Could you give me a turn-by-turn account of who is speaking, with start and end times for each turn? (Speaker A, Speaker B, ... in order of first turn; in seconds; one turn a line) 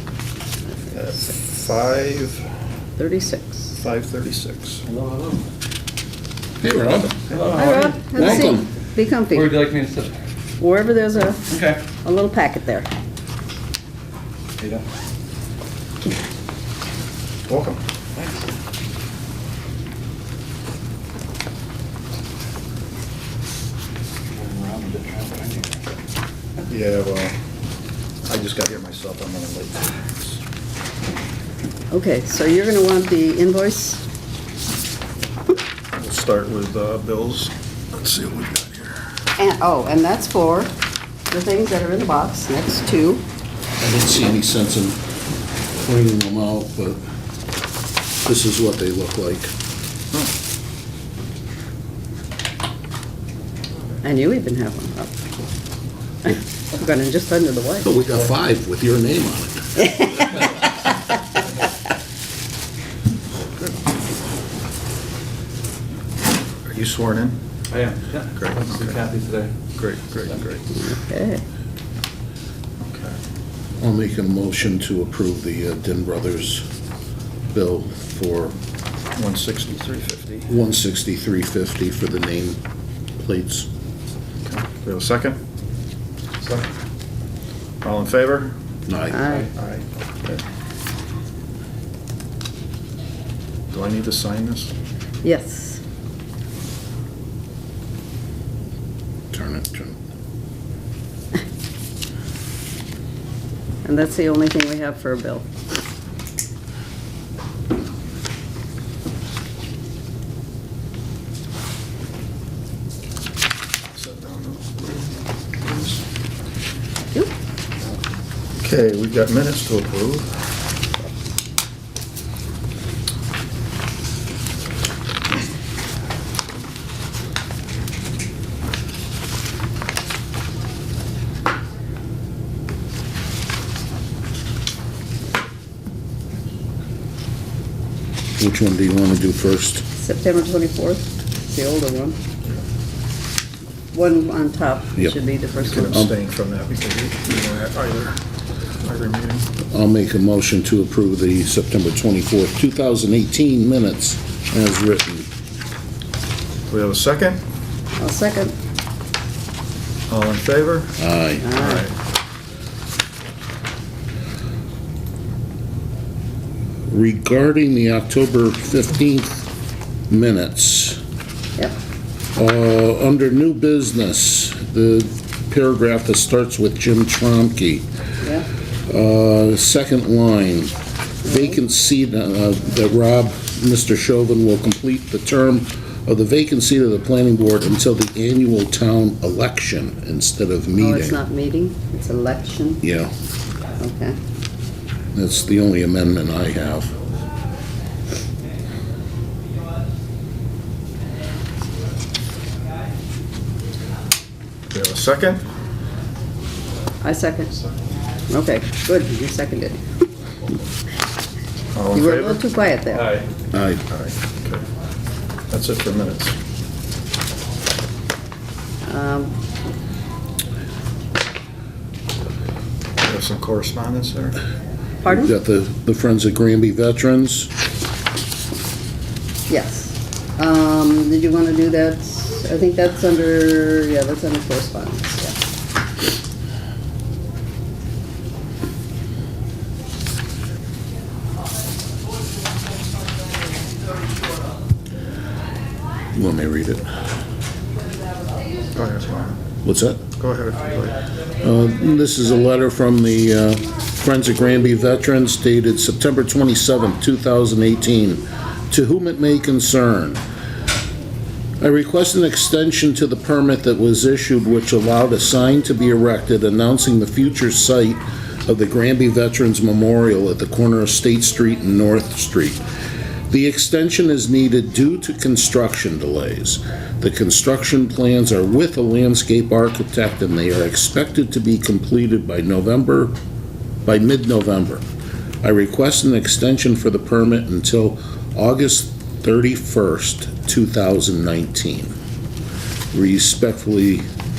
Speaker A: 0.9-2.5
Speaker B: 3.0-3.8
Speaker A: 3.8-4.8
Speaker C: 4.8-5.4
Speaker D: 6.6-7.2
Speaker A: 7.3-7.5
Speaker C: 7.3-8.5
Speaker B: 7.5-9.6
Speaker D: 8.1-8.7
Speaker C: 9.3-10.1
Speaker B: 10.6-11.5
Speaker C: 11.5-11.8
Speaker B: 12.0-12.9
Speaker C: 14.6-14.8
Speaker A: 17.5-17.8
Speaker C: 18.1-18.4
Speaker C: 24.3-25.8
Speaker A: 26.7-27.4
Speaker A: 28.2-30.4
Speaker B: 31.9-34.0
Speaker A: 36.0-39.0
Speaker B: 39.4-40.7
Speaker B: 41.3-43.2
Speaker D: 43.8-45.0
Speaker D: 45.8-47.0
Speaker D: 48.2-49.5
Speaker B: 54.0-55.1
Speaker B: 56.2-58.0
Speaker D: 57.8-60.1
Speaker A: 66.7-67.4
Speaker C: 67.7-69.5
Speaker A: 68.4-69.0
Speaker A: 69.8-70.7
Speaker B: 70.7-71.4
Speaker A: 72.8-73.2
Speaker D: 73.8-76.6
Speaker D: 77.5-78.5
Speaker A: 79.1-80.5
Speaker D: 80.5-82.6
Speaker D: 83.2-83.7
Speaker A: 84.4-85.4
Speaker A: 86.4-86.7
Speaker A: 87.8-88.5
Speaker D: 88.9-89.3
Speaker B: 89.1-89.5
Speaker A: 89.5-90.4
Speaker A: 93.7-94.7
Speaker B: 95.2-95.8
Speaker D: 99.3-100.0
Speaker B: 103.8-105.5
Speaker A: 113.9-116.0
Speaker A: 118.6-120.3
Speaker D: 138.4-139.8
Speaker B: 139.9-142.2
Speaker B: 143.9-146.0
Speaker A: 145.6-148.2
Speaker A: 148.8-149.5
Speaker D: 149.7-155.3
Speaker A: 156.7-157.4
Speaker B: 158.0-158.5
Speaker A: 160.1-160.9
Speaker D: 161.0-161.5
Speaker B: 161.4-161.9
Speaker A: 161.5-161.9
Speaker D: 166.9-169.5
Speaker D: 170.1-171.0
Speaker D: 172.3-177.9
Speaker B: 178.2-178.5
Speaker D: 178.9-191.2
Speaker B: 190.8-192.8
Speaker D: 192.8-193.1
Speaker B: 193.8-194.2
Speaker D: 195.1-197.0
Speaker A: 204.7-205.4
Speaker B: 207.0-207.5
Speaker B: 208.3-209.8
Speaker A: 211.7-212.4
Speaker B: 211.9-213.2
Speaker D: 213.5-213.8
Speaker A: 213.9-214.6
Speaker A: 215.5-216.3
Speaker B: 218.8-219.3
Speaker A: 223.0-224.4
Speaker B: 225.0-225.3
Speaker D: 225.0-227.5
Speaker B: 229.5-235.4
Speaker D: 246.1-246.9
Speaker A: 248.7-249.4
Speaker D: 249.6-250.1
Speaker A: 250.1-251.0
Speaker D: 251.4-260.2
Speaker D: 261.6-272.6
Speaker D: 273.3-283.1
Speaker D: 283.8-284.8
Speaker D: 285.4-291.9
Speaker D: 292.9-294.1